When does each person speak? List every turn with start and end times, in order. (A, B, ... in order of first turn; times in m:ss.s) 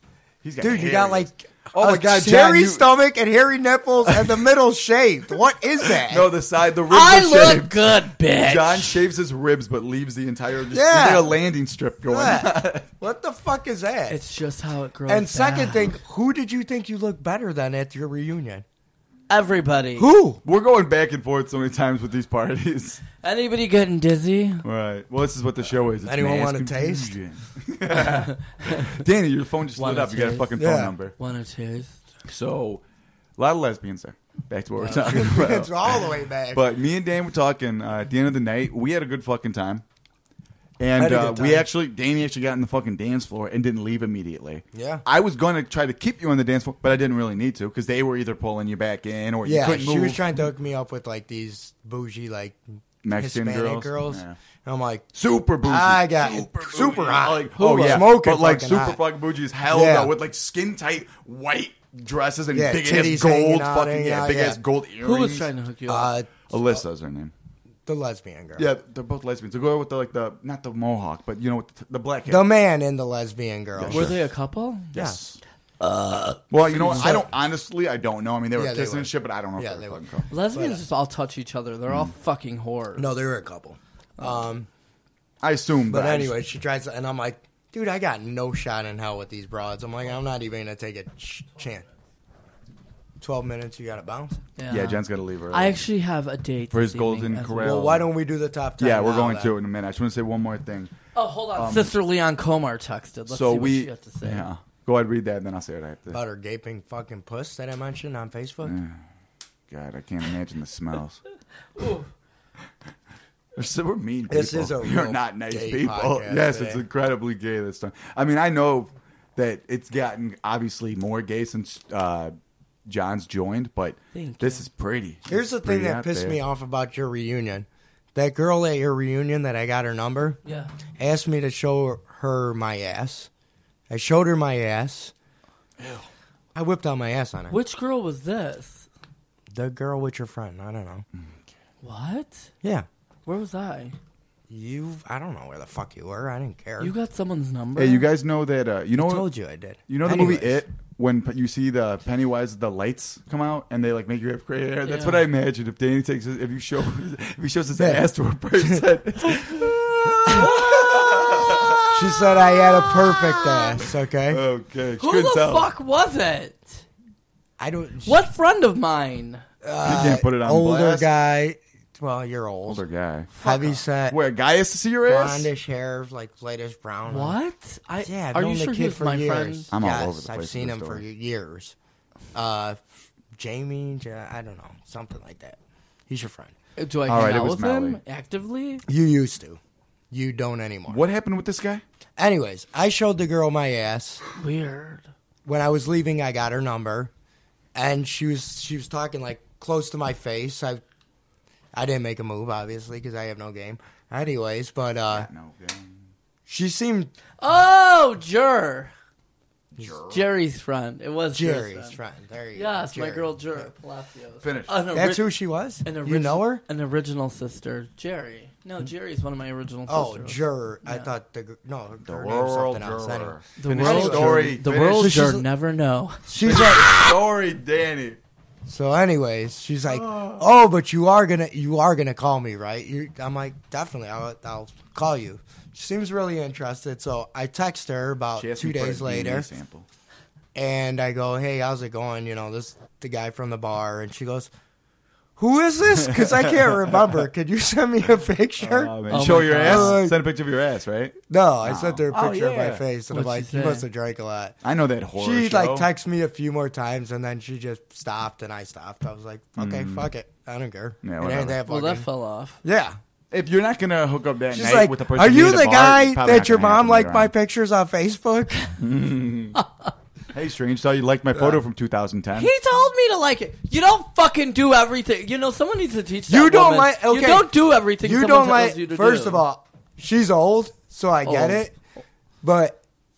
0:00.4-0:02.9 A
0:00.6-0:06.3 B
0:04.0-0:04.4 A
0:05.8-0:12.9 A
0:06.9-0:09.0 C
0:10.7-0:11.4 B
0:12.1-0:14.2 B
0:14.1-0:15.9 C
0:15.1-0:18.6 B
0:19.3-0:20.1 C
0:20.0-0:20.4 B
0:20.4-0:23.0 A
0:23.2-0:24.6 C
0:24.6-0:31.1 A
0:26.0-0:27.1 B
0:27.9-0:29.0 C
0:29.8-0:30.6 C
0:30.6-0:30.9 B
0:31.2-0:32.0 C
0:32.2-0:32.8 A
0:33.4-0:39.8 A
0:34.8-0:36.6 B
0:40.8-0:50.2 A
0:41.0-0:41.7 B
0:44.7-0:45.0 B
0:49.4-0:59.0 B
0:53.0-0:54.4 A
0:55.1-1:05.5 A
0:57.6-0:58.0 C
0:59.7-1:00.1 B
1:02.5-1:04.6 B
1:05.0-1:06.1 C
1:05.9-1:06.8 B
1:06.5-1:07.3 A
1:07.8-1:08.7 B
1:08.6-1:12.4 A
1:12.3-1:14.2 B
1:13.8-1:14.2 A
1:13.9-1:14.9 C
1:14.9-1:15.4 A
1:15.8-1:16.4 C
1:16.5-1:20.3 A
1:16.6-1:17.3 B
1:18.5-1:20.8 B
1:20.3-1:23.1 C
1:21.9-1:22.1 A
1:23.0-1:24.7 B
1:25.4-1:26.4 A
1:25.9-1:31.9 B
1:33.2-1:34.4 B
1:34.6-1:37.8 C
1:34.7-1:35.8 A
1:36.7-1:38.1 A
1:37.6-1:39.5 B
1:38.8-1:40.9 A
1:41.1-1:44.5 C
1:41.5-1:41.9 A
1:43.3-1:46.2 A
1:46.1-1:48.8 B
1:48.6-1:49.0 A
1:49.7-1:51.2 A
1:51.8-1:52.1 C
1:53.5-2:02.3 A
1:54.3-1:56.8 B
2:02.8-2:06.4 A
2:04.1-2:04.6 C
2:05.3-2:10.4 B
2:10.4-2:10.7 C
2:11.0-2:13.3 B
2:13.9-2:15.1 B
2:15.8-2:16.1 A
2:16.5-2:17.6 B
2:17.5-2:18.9 C
2:19.5-2:21.0 B
2:21.8-2:22.5 C
2:23.2-2:24.0 C
2:24.5-2:26.9 B
2:26.8-2:28.0 C
2:27.8-2:29.2 A
2:29.0-2:30.6 B
2:29.9-2:41.9 A
2:34.8-2:35.2 C
2:37.8-2:38.0 B
2:38.6-2:38.8 B
2:40.2-2:43.8 C
2:41.9-2:44.4 B
2:44.3-2:45.7 A
2:45.0-2:46.8 C
2:47.6-2:48.2 B
2:48.0-2:49.4 C
2:49.6-2:52.8 B
2:49.8-2:51.1 A
2:52.6-2:53.3 A
2:53.4-2:53.8 C
2:53.4-2:54.2 B
2:54.1-2:55.5 A
2:55.0-2:57.4 B
2:57.1-2:59.7 C
2:58.0-3:01.7 B
2:59.7-3:01.0 A
3:02.3-3:02.8 B
3:03.4-3:05.6 B
3:06.1-3:06.5 B
3:06.8-3:08.8 C
3:07.1-3:08.0 A
3:08.9-3:09.6 B
3:10.1-3:11.0 B
3:10.9-3:11.8 A
3:12.2-3:14.2 B
3:14.4-3:15.1 C
3:15.4-3:17.1 B
3:17.7-3:20.8 B
3:21.7-3:25.3 B
3:25.1-3:26.0 A
3:26.5-3:27.1 B
3:27.4-3:28.9 C
3:29.8-3:30.2 B
3:30.1-3:32.0 C
3:31.3-3:33.7 B
3:32.5-3:35.2 C
3:34.4-3:34.7 A
3:34.9-3:36.6 B
3:35.8-3:41.1 C
3:39.9-3:45.4 B
3:42.0-3:45.2 A
3:43.6-3:46.2 C
3:46.3-3:47.1 B
3:46.4-3:48.2 A
3:48.7-3:59.5 B
3:49.9-3:50.4 A
3:58.4-3:59.8 A
4:00.5-4:04.5 B
4:05.4-4:10.2 B
4:06.0-4:06.9 A
4:08.6-4:12.8 A
4:09.1-4:10.0 C
4:11.3-4:14.6 B
4:12.1-4:13.8 C
4:14.6-4:15.9 A
4:15.2-4:22.1 B
4:19.6-4:20.1 A
4:21.0-4:21.6 A
4:21.6-4:22.6 C
4:22.6-4:23.0 B
4:23.3-4:27.3 A
4:24.5-4:28.8 B
4:28.8-4:29.6 A
4:29.5-4:29.9 C
4:30.3-4:32.5 A
4:32.4-4:39.4 C
4:36.3-4:41.7 B
4:41.2-4:41.7 C
4:42.4-4:42.8 B